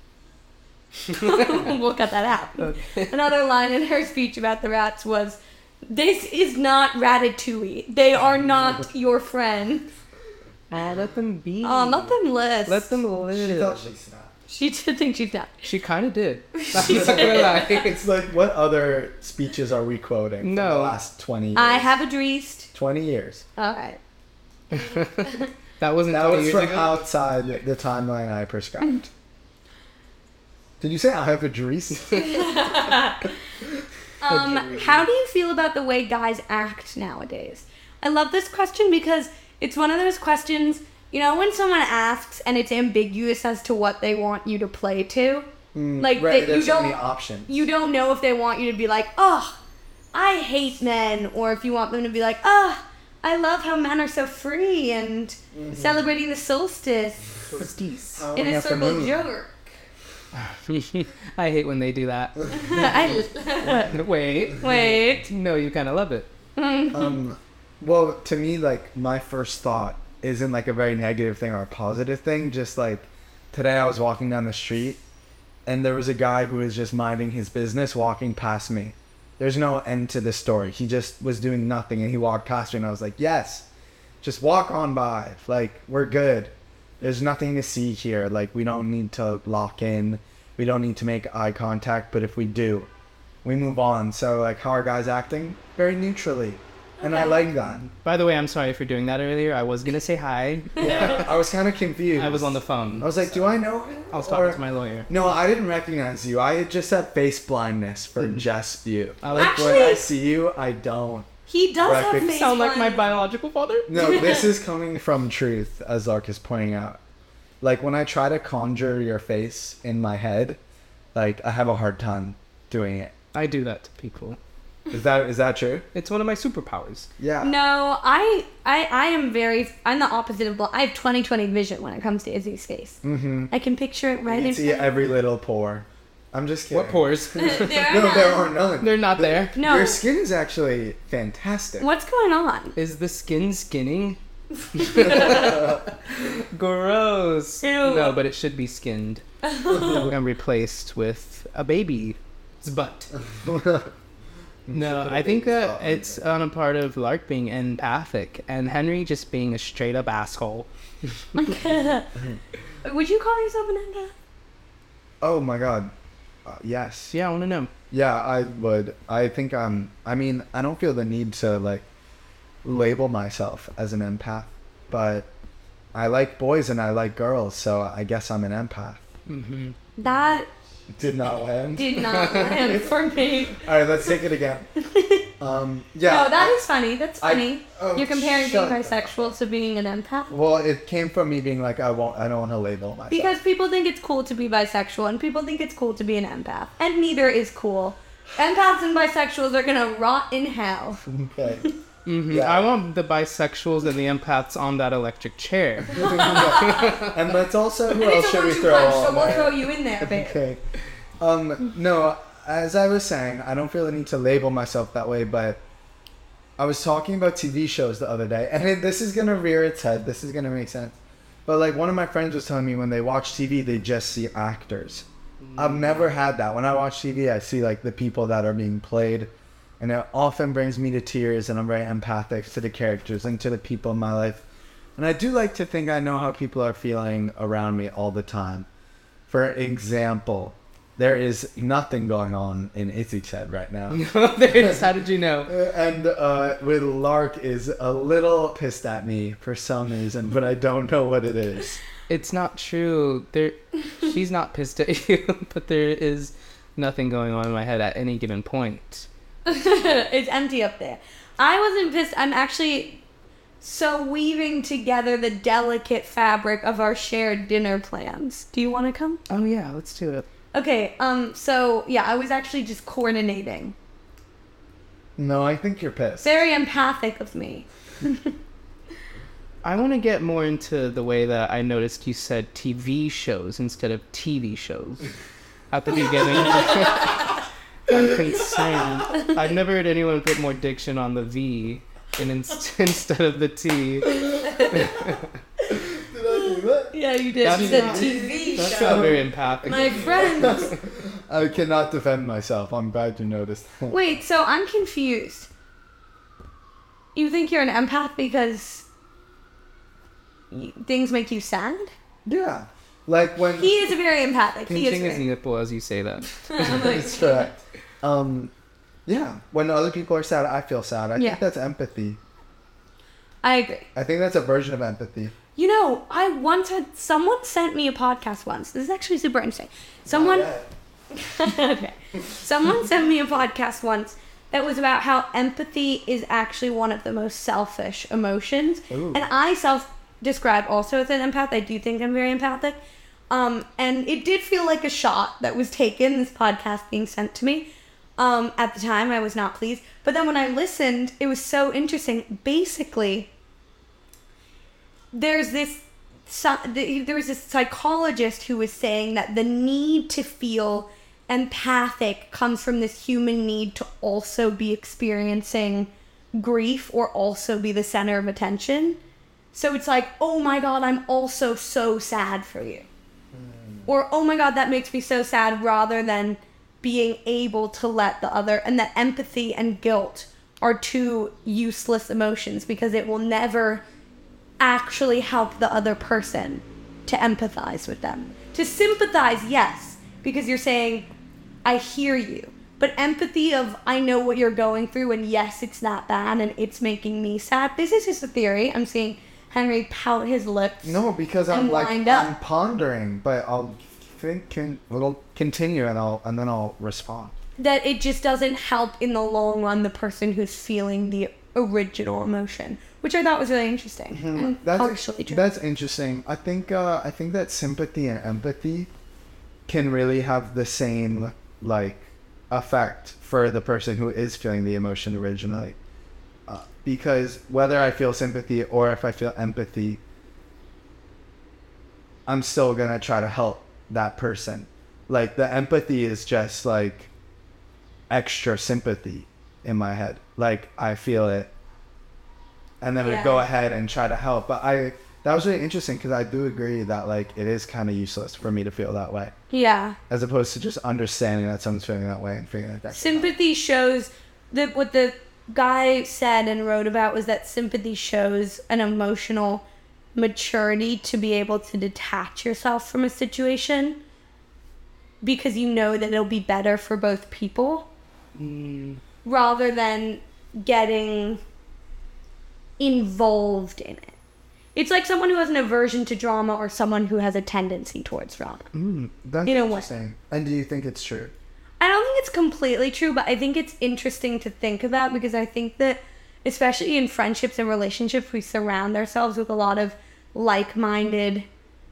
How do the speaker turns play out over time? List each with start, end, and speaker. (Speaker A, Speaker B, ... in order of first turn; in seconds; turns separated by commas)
Speaker A: 1.1-9.9, Speaker B: 2.6-3.3, Speaker B: 10.7-13.8, Speaker A: 11.6-12.9, Speaker C: 13.3-14.3, Speaker A: 14.5-15.7, Speaker B: 15.7-18.0, Speaker C: 16.7-21.9, Speaker A: 16.8-17.5, Speaker B: 20.4-21.0, Speaker A: 21.6-22.7, Speaker C: 22.7-23.5, Speaker A: 23.6-24.0, Speaker B: 24.7-27.0, Speaker C: 26.1-29.1, Speaker C: 30.8-32.3, Speaker A: 32.2-33.3, Speaker A: 34.2-45.5, Speaker B: 34.3-35.0, Speaker C: 45.7-47.7, Speaker A: 46.0-49.6, Speaker A: 50.1-57.3, Speaker C: 55.5-56.0, Speaker B: 57.5-58.4, Speaker C: 58.1-59.2, Speaker A: 58.4-59.7, Speaker B: 60.3-62.5, Speaker A: 62.5-63.9, Speaker B: 63.6-64.7, Speaker A: 64.6-65.2, Speaker B: 65.2-66.3, Speaker A: 66.6-67.2, Speaker C: 66.9-75.0, Speaker C: 75.7-83.7, Speaker C: 84.2-92.9, Speaker C: 93.4-97.8, Speaker A: 97.0-97.4, Speaker B: 97.7-101.3, Speaker C: 100.8-111.3, Speaker B: 102.2-103.3, Speaker B: 104.1-105.1, Speaker B: 109.2-109.9, Speaker A: 109.3-110.1, Speaker A: 111.5-113.0, Speaker C: 111.8-112.3, Speaker B: 112.2-113.9, Speaker C: 113.9-117.0, Speaker A: 114.0-114.5, Speaker C: 117.6-120.6, Speaker C: 121.2-123.1, Speaker B: 123.3-124.4, Speaker C: 124.9-125.8, Speaker B: 125.9-127.1, Speaker C: 127.2-127.6, Speaker A: 127.4-133.0, Speaker C: 133.0-133.5, Speaker A: 133.5-134.9, Speaker C: 134.3-141.9, Speaker B: 136.7-137.9, Speaker A: 137.4-138.5, Speaker B: 138.8-139.6, Speaker A: 139.6-140.0, Speaker A: 141.8-142.8, Speaker B: 142.8-144.2, Speaker B: 144.7-153.1, Speaker A: 144.8-145.7, Speaker A: 147.6-148.2, Speaker A: 149.4-150.1, Speaker C: 153.3-153.9, Speaker C: 154.7-156.2, Speaker B: 154.7-161.6, Speaker A: 161.4-162.1, Speaker A: 162.8-164.1, Speaker C: 165.2-165.9, Speaker C: 166.5-167.1, Speaker B: 167.1-167.7, Speaker C: 167.9-171.9, Speaker C: 172.6-175.3, Speaker C: 175.9-179.1, Speaker B: 179.3-179.8, Speaker A: 180.0-180.5, Speaker C: 180.9-182.5, Speaker A: 181.8-183.7, Speaker B: 182.1-182.8, Speaker C: 183.6-184.7, Speaker A: 184.8-185.3, Speaker C: 185.4-186.6, Speaker A: 186.1-190.4, Speaker C: 187.2-189.3, Speaker C: 190.3-193.3, Speaker A: 193.1-201.1, Speaker C: 201.1-201.7, Speaker B: 202.1-207.1, Speaker C: 202.3-202.7, Speaker A: 205.9-207.0, Speaker C: 205.9-210.6, Speaker A: 207.9-210.4, Speaker C: 211.2-215.6, Speaker C: 216.6-234.4, Speaker B: 225.4-226.1, Speaker C: 235.0-238.7, Speaker C: 239.3-244.0, Speaker B: 243.9-245.5, Speaker C: 244.5-244.8, Speaker C: 245.5-251.8, Speaker B: 252.1-259.1, Speaker A: 259.5-263.0, Speaker A: 263.6-269.2, Speaker B: 269.3-270.3, Speaker A: 270.5-273.8, Speaker C: 275.2-276.4, Speaker A: 276.2-278.3, Speaker B: 279.6-285.1, Speaker B: 285.7-295.3, Speaker A: 289.1-289.4, Speaker A: 294.2-295.0, Speaker C: 295.7-304.0, Speaker A: 296.3-299.1, Speaker B: 297.4-300.8, Speaker A: 299.6-300.8, Speaker A: 303.9-305.5, Speaker A: 307.2-308.9, Speaker A: 310.5-311.9, Speaker C: 312.3-313.8, Speaker A: 313.6-315.2, Speaker B: 314.7-317.0, Speaker A: 316.5-317.4, Speaker C: 316.7-318.5, Speaker C: 319.1-322.2, Speaker A: 323.4-323.9, Speaker C: 323.9-325.4, Speaker A: 325.6-330.5, Speaker C: 330.1-330.7, Speaker A: 331.1-342.8, Speaker C: 338.9-339.2, Speaker A: 343.3-353.3, Speaker A: 355.1-369.0, Speaker A: 369.5-372.9, Speaker C: 373.3-373.9, Speaker A: 373.9-383.8, Speaker A: 384.6-391.1, Speaker A: 391.6-402.3, Speaker C: 400.8-407.3, Speaker A: 407.6-415.4, Speaker C: 414.1-418.9, Speaker C: 419.7-425.8, Speaker C: 426.5-430.0, Speaker C: 432.3-437.1, Speaker C: 438.1-441.5, Speaker C: 442.8-449.3, Speaker A: 443.0-443.4, Speaker A: 449.5-450.0, Speaker C: 450.1-453.3, Speaker A: 452.9-459.6, Speaker A: 460.1-464.0, Speaker A: 465.2-467.9, Speaker B: 468.4-469.0, Speaker A: 469.2-471.4, Speaker A: 472.8-474.1, Speaker A: 474.8-478.6, Speaker B: 478.7-479.3, Speaker C: 479.2-481.3, Speaker A: 479.4-479.9, Speaker A: 481.8-491.5